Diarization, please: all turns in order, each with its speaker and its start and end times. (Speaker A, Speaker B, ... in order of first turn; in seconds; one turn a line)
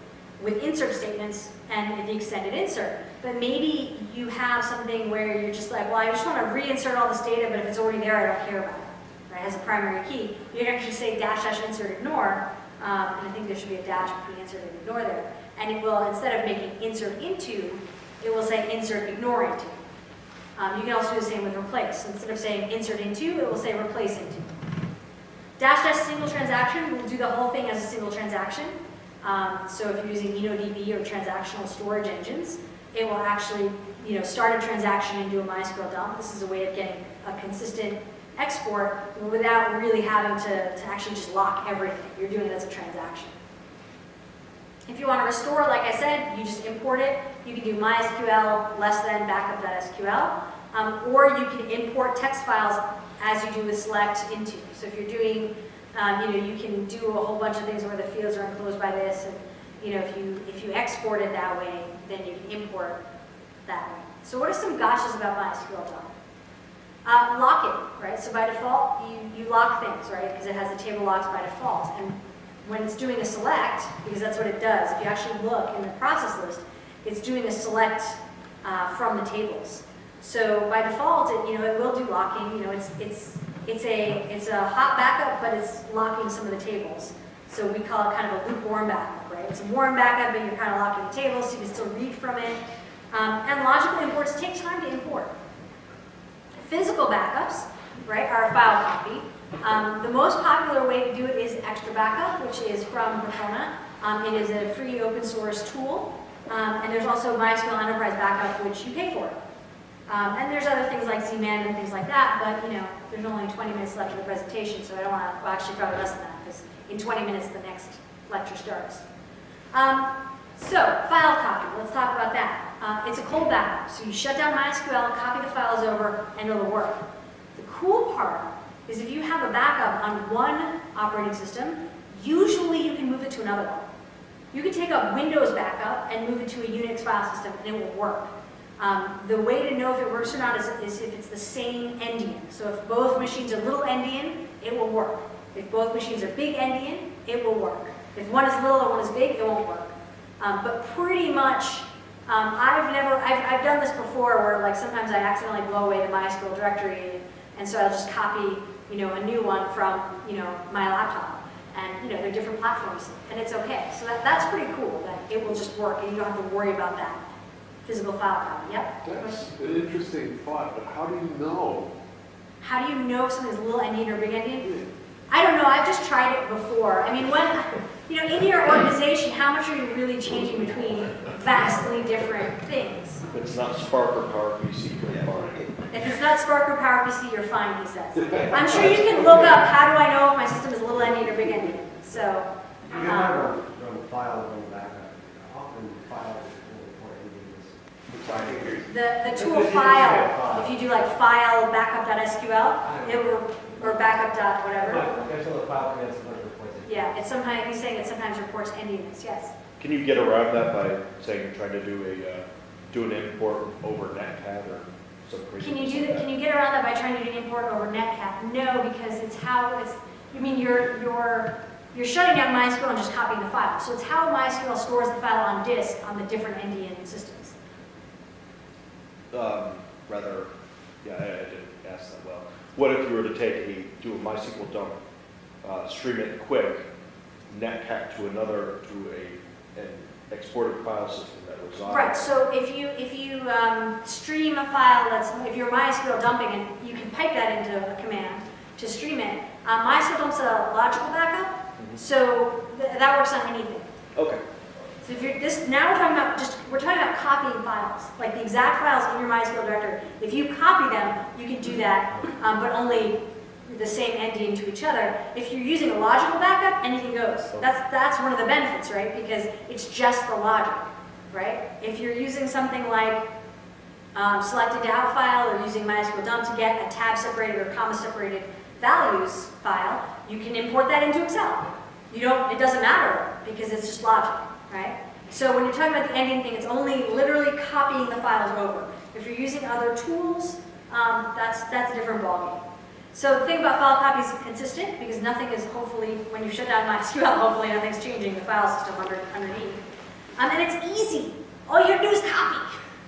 Speaker A: 0.4-19.8
Speaker A: 20.6-24.5
Speaker A: 25.6-43.3
Speaker A: 44.9-63.0
Speaker A: 63.6-66.1
Speaker A: 67.0-92.6
Speaker A: 93.1-95.3
Speaker A: 96.6-109.3
Speaker A: 110.1-119.0
Speaker A: 119.7-127.0
Speaker A: 127.5-133.9
Speaker A: 134.5-167.2
Speaker A: 167.8-169.4
Speaker B: 169.0-171.9
Speaker A: 172.6-174.7
Speaker A: 175.3-183.2
Speaker C: 183.3-185.6
Speaker A: 185.9-192.5
Speaker D: 192.9-198.8
Speaker A: 193.0-193.4
Speaker A: 198.8-205.0
Speaker D: 199.4-200.8
Speaker D: 202.8-204.2
Speaker D: 204.8-207.1
Speaker A: 206.8-209.5
Speaker C: 209.8-216.2
Speaker A: 215.6-227.6
Speaker C: 229.3-230.5
Speaker C: 231.0-234.9
Speaker C: 235.6-236.8
Speaker C: 237.5-242.3
Speaker A: 241.9-253.9
Speaker C: 254.1-254.4
Speaker A: 255.0-273.2
Speaker A: 274.1-299.8
Speaker A: 300.4-302.7